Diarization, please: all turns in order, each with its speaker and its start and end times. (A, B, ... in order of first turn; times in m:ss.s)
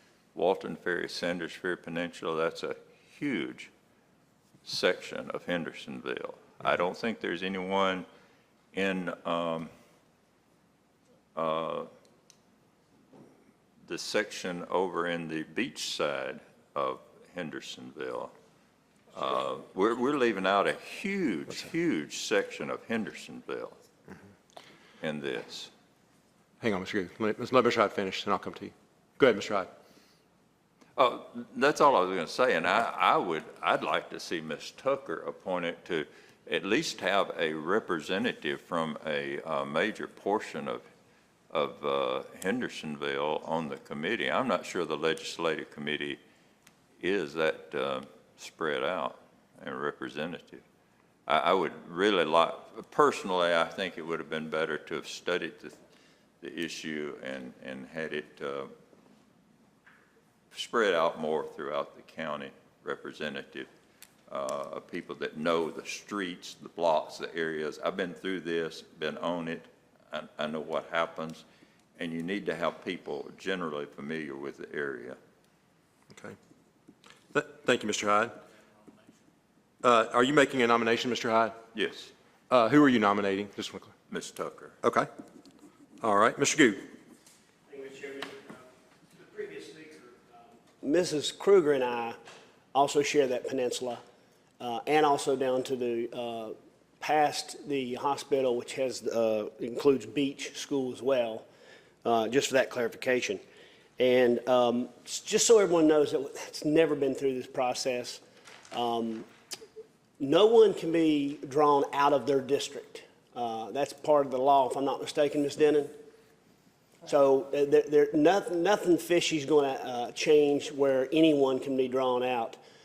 0:00.3-0:03.7 A
0:04.6-0:08.0 A
0:08.7-0:09.7 A
0:11.3-0:11.9 A
0:13.9-0:18.3 A
0:19.1-0:23.8 A
0:25.0-0:25.7 A
0:26.6-0:29.7 B
0:31.0-0:40.8 A
0:41.5-0:46.2 A
0:47.0-0:50.6 A
0:51.3-0:55.7 A
0:56.4-0:58.7 A
1:00.5-1:03.7 A
1:04.3-1:11.4 A
1:12.0-1:15.2 A
1:17.3-1:18.3 B
1:19.8-1:21.6 B
1:21.7-1:22.1 A
1:22.5-1:23.9 B
1:24.1-1:24.8 A
1:24.8-1:25.1 B
1:26.0-1:26.8 B
1:29.2-1:29.9 C
1:30.9-1:32.1 C
1:32.7-1:34.0 C
1:34.6-1:41.4 C
1:42.0-1:43.4 C
1:44.0-1:48.2 C
1:48.7-1:49.2 C
1:50.2-1:55.9 C
1:57.1-2:02.6 C